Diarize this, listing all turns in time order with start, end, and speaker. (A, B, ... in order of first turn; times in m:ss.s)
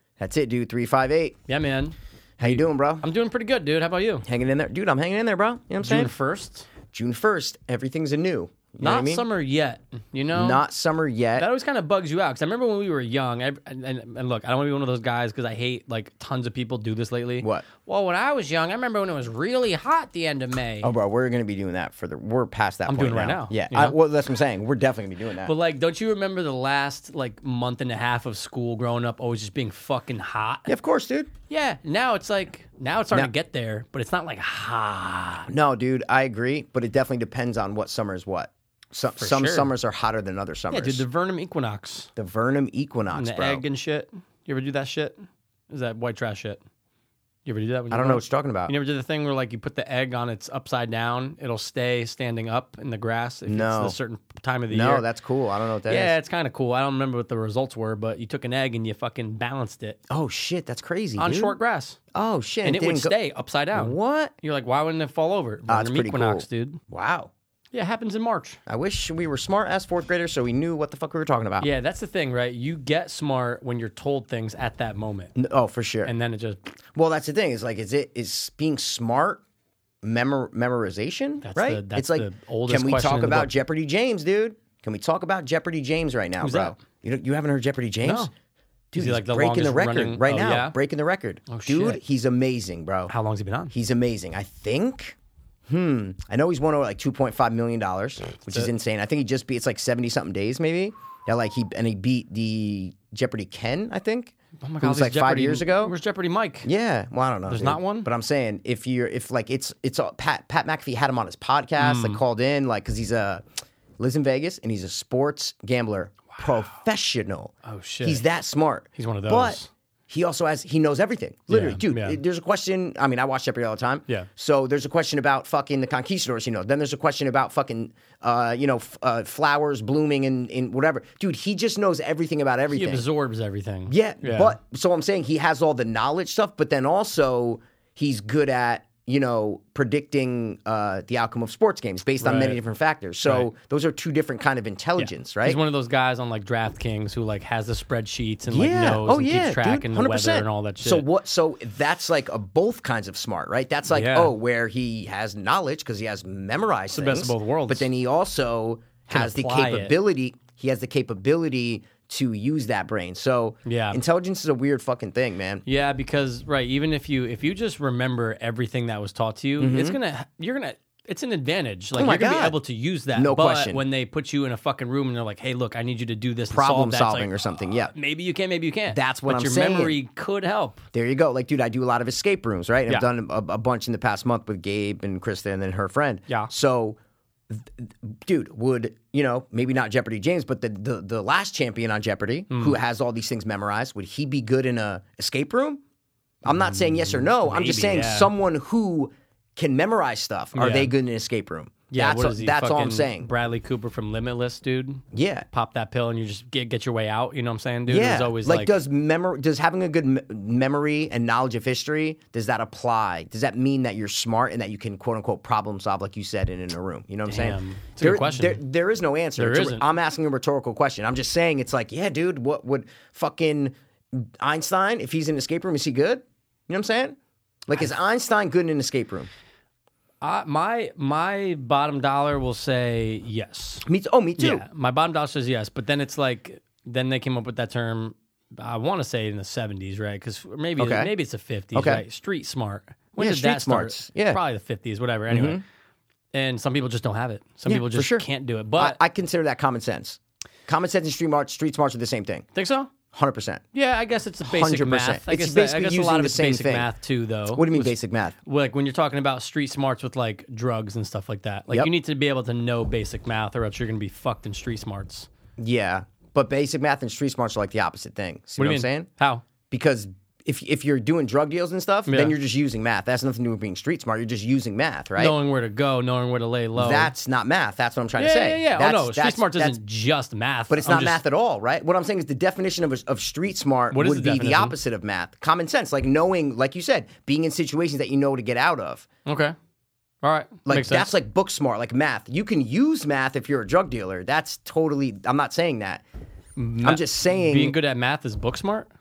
0:00.2-0:01.4 A
0:01.5-0:04.2 B
0:02.4-0:03.0 A
0:04.2-0:06.1 A
0:05.8-0:06.7 B
0:06.9-0:09.2 A
0:08.8-0:10.6 B
0:10.3-0:11.5 A
0:11.4-0:20.9 B
0:17.4-0:17.7 A
0:20.8-0:25.5 A
0:22.9-0:24.0 B
0:25.4-0:30.7 B
0:30.7-0:31.3 A
0:31.5-0:35.5 B
0:35.5-0:41.0 A
0:39.2-0:39.7 B
0:40.7-0:42.1 B
0:42.2-0:43.6 A
0:43.1-0:46.6 B
0:47.5-0:55.0 B
0:47.9-0:48.7 A
0:53.5-0:54.0 A
0:54.7-0:56.1 A
0:55.9-1:00.0 B
1:00.1-1:01.6 A
1:01.2-1:02.0 B
1:02.1-1:03.2 A
1:02.6-1:06.8 B
1:03.7-1:04.3 A
1:05.7-1:07.3 A
1:07.7-1:08.6 B
1:08.7-1:11.7 A
1:11.6-1:15.3 B
1:15.4-1:16.1 A
1:16.0-1:16.6 B
1:17.0-1:19.4 A
1:20.0-1:28.3 A
1:21.4-1:23.5 B
1:26.4-1:26.8 B
1:28.0-1:28.3 B
1:28.9-1:33.1 A
1:29.0-1:30.8 B
1:31.5-1:32.0 B
1:33.1-1:33.7 B
1:33.7-1:35.2 A
1:35.7-1:45.9 A
1:38.4-1:38.7 B
1:44.6-1:46.7 B
1:46.6-1:53.4 A
1:47.5-1:48.1 B
1:51.8-1:52.2 B
1:54.0-2:13.0 A
1:57.6-1:58.2 B
1:59.0-1:59.7 B
2:01.5-2:02.2 B
2:12.7-2:14.6 B
2:13.9-2:25.6 A
2:22.2-2:22.6 B
2:23.2-2:23.5 B
2:25.0-2:31.1 B
2:28.5-2:45.6 A
2:33.9-2:34.3 B
2:36.9-2:37.9 B
2:39.1-2:40.0 B
2:43.6-2:44.0 B
2:45.7-3:00.8 B
2:49.6-2:50.0 A
2:52.0-2:52.6 A
2:53.2-2:53.8 A
2:56.5-2:57.9 A
2:58.9-3:00.0 A
3:00.9-3:07.0 A
3:07.5-3:15.8 A
3:12.5-3:12.8 B
3:16.4-3:23.3 A
3:16.5-3:18.3 B
3:20.6-3:20.9 B
3:21.9-3:28.7 B
3:25.1-3:25.5 A
3:27.9-3:49.3 A
3:37.3-3:38.6 B
3:39.4-3:39.9 B
3:50.2-3:53.9 B
3:53.8-3:54.6 A
3:54.4-4:05.6 B
4:00.8-4:01.1 A
4:01.7-4:02.0 A
4:03.2-4:04.4 A
4:05.3-4:05.6 A
4:06.3-4:09.0 B
4:07.7-4:12.5 A
4:12.5-4:12.9 B
4:13.1-4:13.6 A
4:13.7-4:25.3 B
4:14.4-4:16.9 A
4:17.5-4:18.4 A
4:25.6-4:29.1 A
4:28.6-4:29.4 B
4:29.7-4:35.4 A
4:32.1-4:32.4 B
4:35.2-4:37.1 B
4:36.8-4:39.8 A
4:38.2-4:41.2 B
4:40.7-4:49.1 A
4:43.9-4:44.8 B
4:49.3-4:49.6 B
4:50.2-4:51.1 B
4:50.7-4:56.0 A
4:56.6-4:58.9 B
4:56.8-4:57.8 A